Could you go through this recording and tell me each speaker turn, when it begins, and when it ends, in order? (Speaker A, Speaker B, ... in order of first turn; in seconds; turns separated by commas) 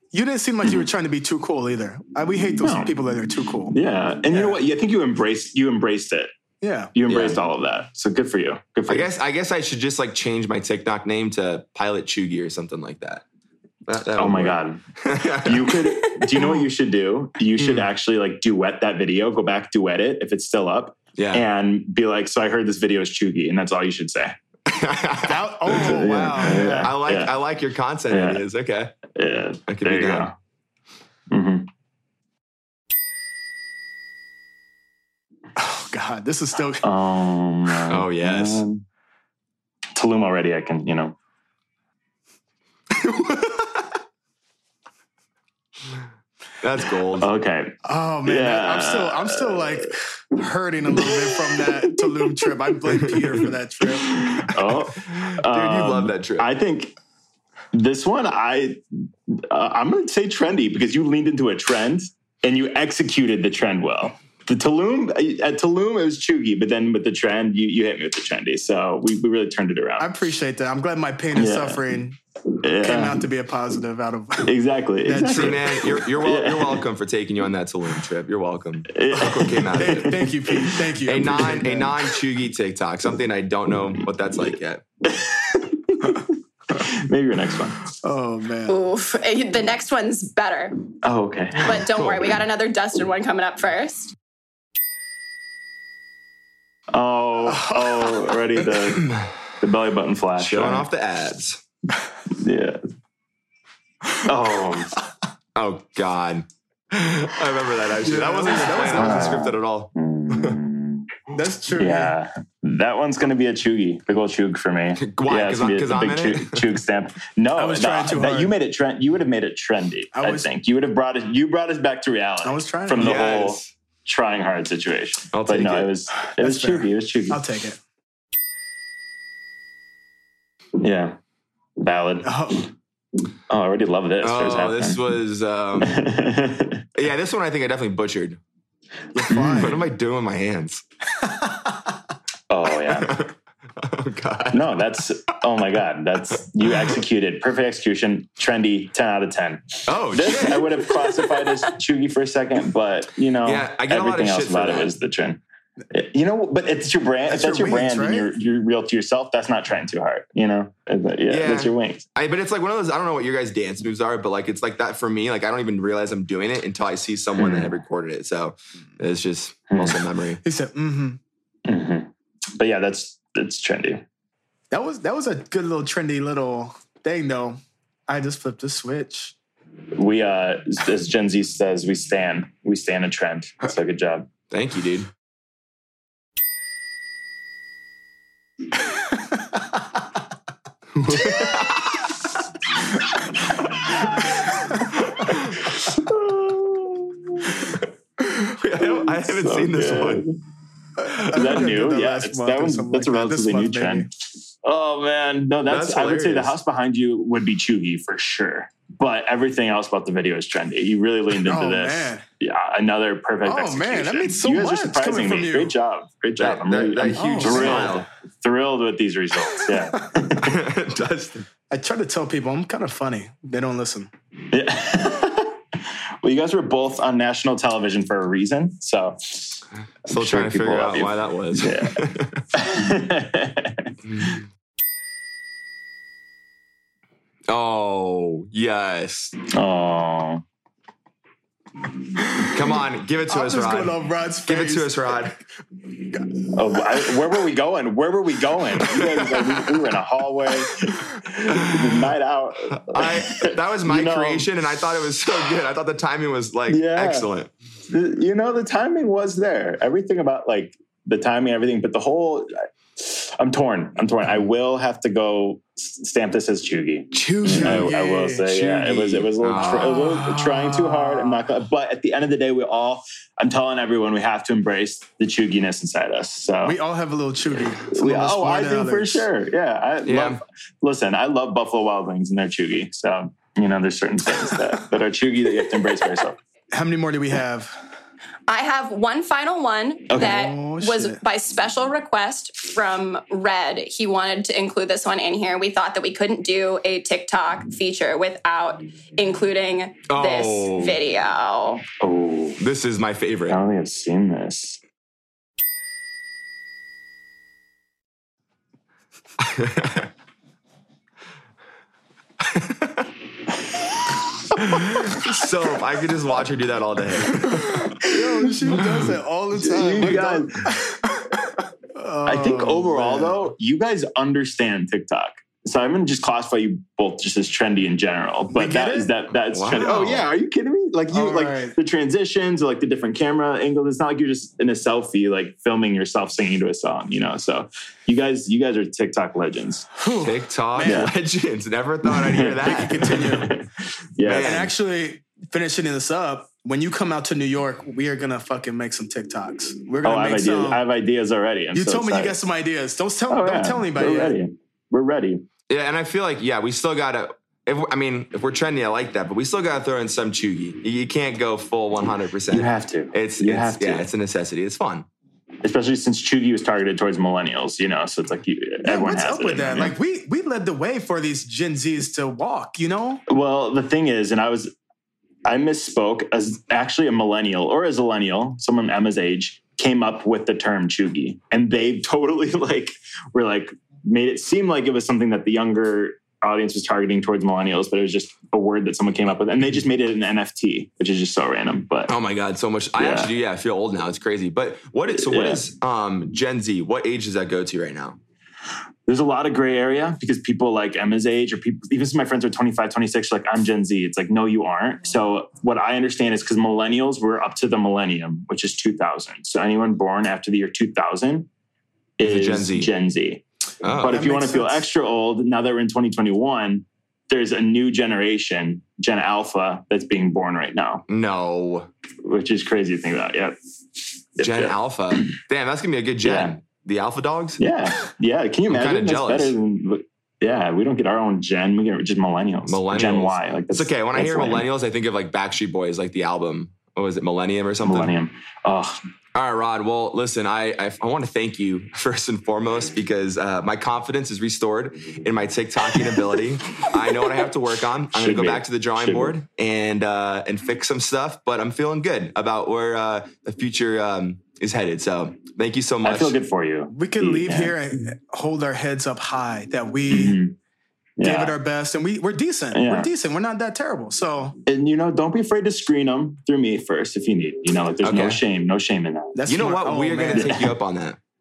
Speaker A: 0.1-3.7, Speaker B: 2.6-2.9, Speaker B: 3.7-6.3, Speaker A: 4.3-4.6, Speaker A: 6.6-6.9, Speaker B: 6.9-9.1, Speaker C: 7.1-7.4, Speaker C: 8.9-13.2, Speaker C: 13.8-15.8, Speaker B: 14.2-14.8, Speaker B: 15.4-24.3, Speaker D: 16.0-16.4, Speaker C: 17.6-17.9, Speaker C: 21.1-21.4, Speaker C: 24.7-25.9, Speaker A: 25.2-26.9, Speaker B: 25.7-27.3, Speaker C: 26.5-28.9, Speaker B: 28.1-28.4, Speaker B: 29.1-30.3, Speaker C: 29.7-30.3, Speaker B: 31.3-31.7, Speaker A: 35.5-36.8, Speaker B: 36.8-38.8, Speaker C: 37.9-38.6, Speaker B: 39.9-41.1, Speaker C: 42.9-44.0, Speaker C: 46.6-47.3, Speaker B: 47.1-49.9, Speaker A: 47.8-54.5, Speaker B: 51.9-52.5, Speaker B: 54.0-57.0, Speaker C: 55.0-56.5, Speaker B: 57.7-70.1, Speaker A: 70.0-72.2, Speaker B: 71.3-71.8, Speaker B: 72.6-73.2, Speaker A: 72.8-74.5, Speaker B: 74.4-76.8, Speaker A: 75.0-75.7, Speaker C: 75.3-80.2, Speaker B: 78.9-80.7, Speaker A: 79.8-81.9, Speaker C: 81.0-84.8, Speaker B: 85.0-87.8, Speaker A: 88.0-88.8, Speaker D: 88.7-90.8, Speaker B: 91.0-91.8, Speaker D: 91.6-94.1, Speaker C: 91.8-92.3, Speaker B: 96.9-100.8, Speaker A: 97.5-98.3, Speaker C: 98.9-99.3, Speaker C: 100.4-101.6, Speaker B: 102.3-102.8, Speaker B: 104.2-105.0, Speaker C: 105.5-110.6, Speaker A: 108.0-109.5, Speaker B: 108.8-111.1, Speaker A: 111.3-112.1, Speaker B: 111.8-127.4, Speaker C: 115.0-116.8, Speaker A: 117.5-118.5, Speaker A: 120.1-120.5, Speaker A: 122.4-123.2, Speaker C: 123.0-123.7, Speaker C: 125.3-125.9, Speaker A: 126.2-127.8, Speaker B: 130.8-131.2, Speaker B: 131.8-132.6, Speaker A: 132.2-132.6, Speaker B: 133.5-135.0, Speaker C: 134.2-136.2, Speaker B: 135.8-136.8, Speaker C: 136.9-138.4, Speaker A: 139.1-139.8, Speaker B: 139.3-139.7, Speaker C: 139.3-140.8, Speaker A: 141.2-141.9, Speaker B: 142.5-143.2, Speaker C: 142.9-144.8, Speaker B: 144.5-162.0, Speaker C: 146.3-147.0, Speaker C: 149.9-150.9, Speaker C: 153.4-154.9, Speaker A: 157.2-158.3, Speaker C: 161.3-170.4, Speaker B: 167.3-167.7, Speaker B: 169.7-170.0, Speaker A: 170.4-171.2, Speaker B: 171.7-174.0, Speaker A: 174.7-179.3, Speaker B: 179.9-184.3, Speaker C: 184.5-185.1, Speaker C: 190.9-192.2, Speaker A: 191.1-191.5, Speaker C: 193.8-195.7, Speaker B: 195.8-197.7, Speaker C: 198.2-200.2, Speaker B: 199.1-200.3, Speaker A: 201.0-204.1, Speaker B: 201.3-204.1, Speaker B: 204.6-220.5, Speaker C: 205.7-206.5, Speaker A: 211.4-212.2, Speaker A: 213.4-215.7, Speaker C: 216.4-218.1, Speaker A: 217.1-218.0, Speaker C: 220.4-221.5, Speaker A: 221.7-224.1, Speaker B: 224.5-225.6, Speaker B: 226.2-232.0, Speaker C: 230.1-232.4, Speaker B: 232.5-234.3, Speaker C: 234.1-234.3, Speaker C: 237.5-239.3, Speaker B: 239.5-240.4, Speaker A: 242.2-242.5, Speaker C: 242.5-245.4, Speaker A: 243.3-245.2, Speaker A: 246.2-246.6, Speaker B: 246.5-254.5, Speaker C: 252.9-257.5, Speaker B: 256.7-257.3, Speaker B: 257.9-276.8, Speaker C: 267.1-267.9, Speaker A: 267.2-268.4, Speaker C: 268.4-270.0, Speaker A: 269.6-271.5, Speaker A: 276.6-279.3, Speaker B: 277.9-286.4, Speaker C: 280.0-280.4, Speaker A: 286.7-287.8, Speaker D: 288.5-301.8, Speaker B: 290.1-290.4, Speaker A: 290.2-291.2, Speaker C: 300.1-301.0, Speaker B: 302.0-302.6, Speaker C: 302.6-303.6, Speaker B: 303.5-304.8, Speaker C: 309.4-310.1, Speaker C: 312.4-313.1, Speaker C: 314.6-317.9, Speaker A: 317.5-323.4, Speaker B: 319.6-320.7, Speaker B: 322.2-339.9, Speaker A: 328.5-329.1, Speaker C: 329.5-330.3, Speaker A: 331.1-331.7, Speaker A: 340.0-341.1, Speaker C: 340.2-343.3, Speaker B: 340.8-341.1, Speaker B: 342.0-344.7, Speaker A: 342.6-343.5, Speaker C: 344.2-344.7, Speaker A: 344.3-350.8, Speaker B: 350.0-352.4, Speaker A: 351.7-354.3, Speaker B: 353.3-355.4, Speaker C: 355.7-365.1, Speaker B: 362.5-364.1, Speaker B: 365.6-369.9, Speaker A: 368.8-373.2, Speaker B: 373.3-374.7, Speaker B: 375.4-392.1, Speaker C: 392.1-398.2, Speaker B: 393.0-393.3, Speaker B: 395.1-395.6, Speaker B: 399.1-411.5, Speaker B: 412.2-421.0, Speaker C: 412.2-412.9, Speaker C: 413.8-414.2, Speaker A: 414.0-414.9, Speaker C: 421.1-421.9, Speaker B: 422.2-423.6, Speaker B: 424.4-425.4, Speaker C: 424.4-427.6, Speaker B: 426.2-426.6, Speaker B: 427.6-434.6, Speaker C: 428.7-429.6, Speaker C: 432.7-438.1, Speaker B: 437.8-439.0, Speaker C: 439.3-456.4, Speaker B: 448.1-449.4, Speaker B: 456.0-457.8, Speaker A: 456.9-460.4, Speaker B: 460.1-460.5, Speaker B: 461.2-461.5, Speaker A: 461.2-464.6, Speaker B: 462.7-463.1, Speaker B: 464.6-469.4, Speaker C: 468.0-468.4, Speaker A: 469.3-470.6, Speaker C: 469.5-471.2, Speaker B: 470.2-470.7